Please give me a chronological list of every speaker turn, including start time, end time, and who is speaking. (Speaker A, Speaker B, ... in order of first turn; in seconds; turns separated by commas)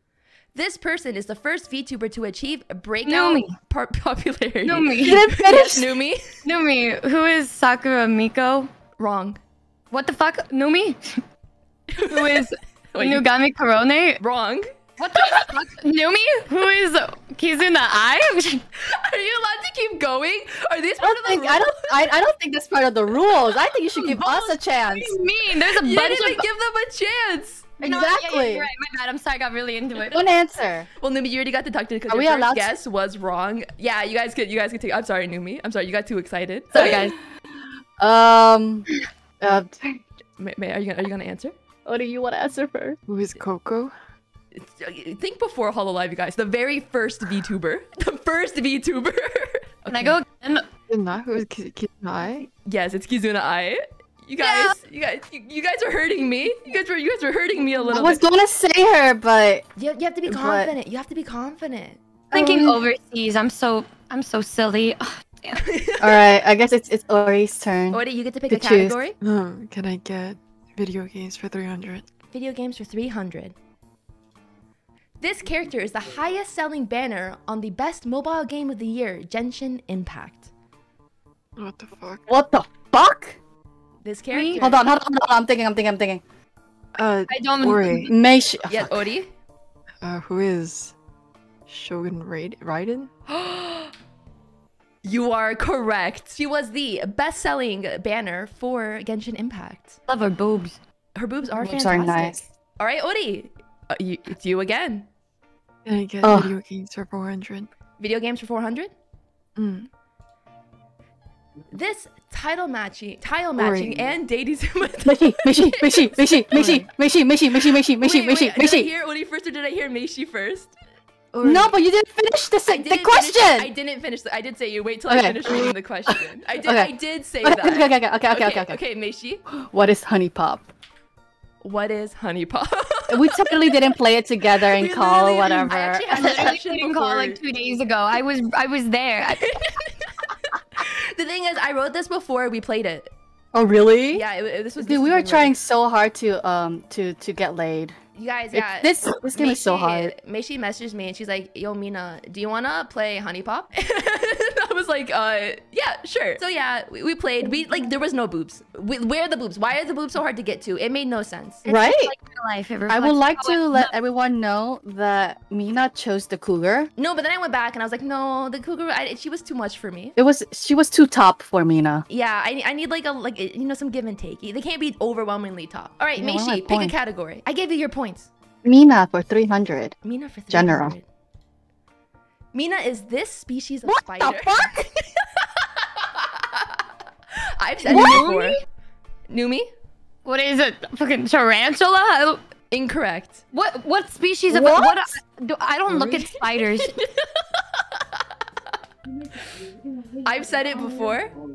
Speaker A: 0.5-6.2, Speaker B: 3.0-3.5, Speaker B: 4.7-5.4, Speaker C: 5.0-5.9, Speaker B: 6.4-8.7, Speaker A: 9.0-9.4, Speaker B: 9.9-11.2, Speaker A: 11.9-13.3, Speaker B: 12.1-14.2, Speaker A: 14.2-14.7, Speaker B: 15.0-18.6, Speaker A: 18.8-22.0, Speaker C: 21.0-25.2, Speaker A: 24.0-24.6, Speaker B: 24.9-26.4, Speaker A: 25.7-27.7, Speaker C: 27.8-28.7, Speaker B: 27.8-30.2, Speaker C: 30.0-30.9, Speaker A: 31.0-37.1, Speaker C: 32.1-32.7, Speaker C: 36.8-37.0, Speaker B: 36.8-37.1, Speaker C: 38.0-38.9, Speaker C: 39.4-40.0, Speaker A: 40.4-41.5, Speaker C: 41.9-43.0, Speaker D: 43.1-43.9, Speaker A: 44.5-50.2, Speaker B: 49.9-50.7, Speaker D: 50.9-52.5, Speaker A: 52.7-58.2, Speaker B: 54.4-54.8, Speaker C: 57.9-59.6, Speaker A: 59.8-62.0, Speaker C: 60.3-60.7, Speaker C: 62.3-62.8, Speaker B: 62.3-65.6, Speaker A: 65.5-66.3, Speaker C: 66.0-69.0, Speaker A: 67.9-69.2, Speaker D: 69.2-72.1, Speaker A: 72.3-73.5, Speaker A: 75.2-80.5, Speaker D: 81.6-82.2, Speaker C: 82.3-83.4, Speaker A: 84.0-84.8, Speaker B: 84.3-84.6, Speaker C: 84.6-86.2, Speaker D: 87.0-88.1, Speaker B: 87.3-88.1, Speaker C: 87.9-89.1, Speaker A: 88.7-89.3, Speaker D: 90.0-90.9, Speaker D: 91.7-93.1, Speaker A: 95.0-100.0, Speaker B: 100.1-100.8, Speaker A: 101.2-105.1, Speaker C: 101.6-102.4, Speaker D: 105.8-107.7, Speaker C: 106.2-106.5, Speaker A: 108.0-108.9, Speaker D: 109.6-109.9, Speaker A: 111.7-116.4, Speaker D: 113.6-114.1, Speaker C: 115.0-118.9, Speaker D: 116.5-116.9, Speaker A: 118.0-120.7, Speaker D: 121.3-121.8, Speaker C: 121.4-123.7, Speaker A: 122.7-129.4, Speaker C: 125.1-125.7, Speaker C: 126.6-126.9, Speaker C: 127.4-128.8, Speaker C: 129.5-130.7, Speaker A: 131.6-133.5, Speaker C: 133.1-136.4, Speaker A: 134.7-137.4, Speaker B: 136.1-139.7, Speaker A: 139.4-140.1, Speaker A: 140.8-143.1, Speaker C: 143.5-144.2, Speaker A: 144.1-145.6, Speaker C: 144.8-148.0, Speaker A: 148.2-161.7, Speaker C: 148.5-150.1, Speaker B: 161.7-163.9, Speaker C: 161.7-162.1, Speaker C: 162.9-166.9, Speaker A: 167.0-170.2, Speaker C: 170.2-172.1, Speaker A: 172.1-178.3, Speaker C: 176.2-176.9, Speaker C: 178.6-180.0, Speaker A: 180.1-181.1, Speaker C: 180.5-180.9, Speaker A: 182.5-186.8, Speaker C: 183.8-184.9, Speaker A: 187.6-188.6, Speaker B: 187.9-188.6, Speaker C: 187.9-188.3, Speaker A: 189.3-189.7, Speaker B: 190.2-192.4, Speaker A: 192.7-193.4, Speaker B: 193.5-197.0, Speaker C: 194.5-195.2, Speaker A: 196.9-198.0, Speaker A: 200.2-201.3